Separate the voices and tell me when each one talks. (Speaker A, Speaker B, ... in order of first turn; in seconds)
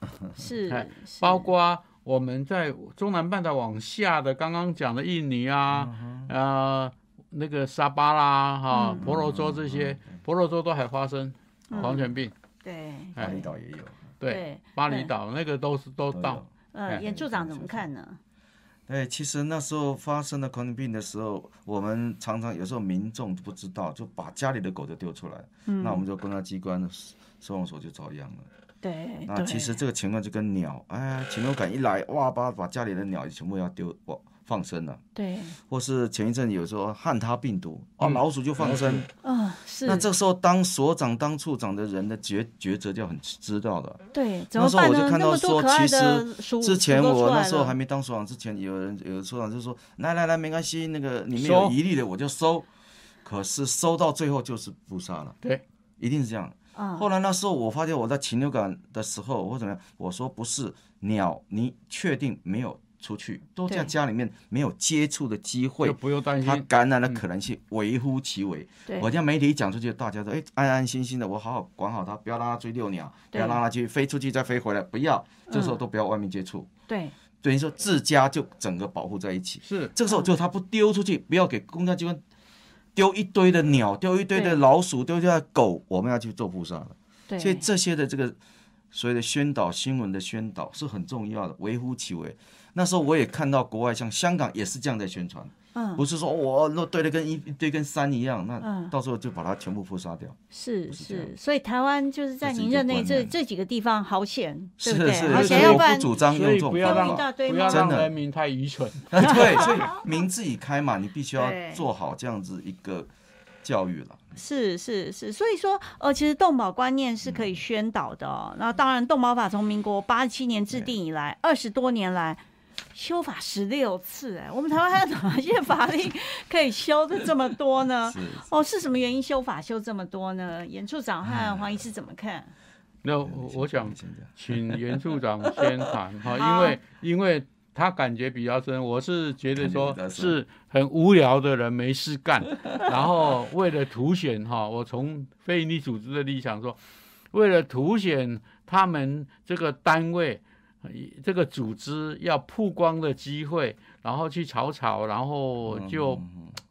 Speaker A: 0.4-1.5, 8.7-9.0, 11.7-12.1, 12.6-13.3, 14.2-15.1, 16.7-18.2, 25.7-26.0, 28.8-29.8, 35.1-35.6, 39.2-40.1, 44.1-47.8, 56.8-57.1, 73.3-73.6, 75.5-75.8, 76.9-77.1, 84.3-84.6, 87.3-87.6, 95.8-96.0, 98.6-98.9, 100.5-106.1, 106.8-108.0, 109.2-110.0, 111.4-111.8, 114.4-122.4, 123.0-132.5, 136.3-136.8
Speaker B: 0.7-12.3, 13.2-13.4, 14.2-17.0, 38.0-39.1, 51.4-51.8, 65.8-67.2, 79.6-79.9, 105.3-109.7, 133.0-146.8, 147.3-156.2
Speaker C: 5.7-6.3, 9.0-10.2, 13.2-14.1, 16.1-17.9, 18.9-28.5, 29.3-35.0, 35.6-39.1, 39.9-44.0, 44.5-52.7, 53.2-55.4, 56.0-76.7, 77.4-82.2, 83.0-88.4, 88.9-100.4, 100.9-101.3, 102.4-103.3, 104.8-108.1, 109.1-113.1, 113.6-114.4, 128.1-128.4, 131.3-131.6, 133.2-134.8, 139.6-140.4, 155.7-156.5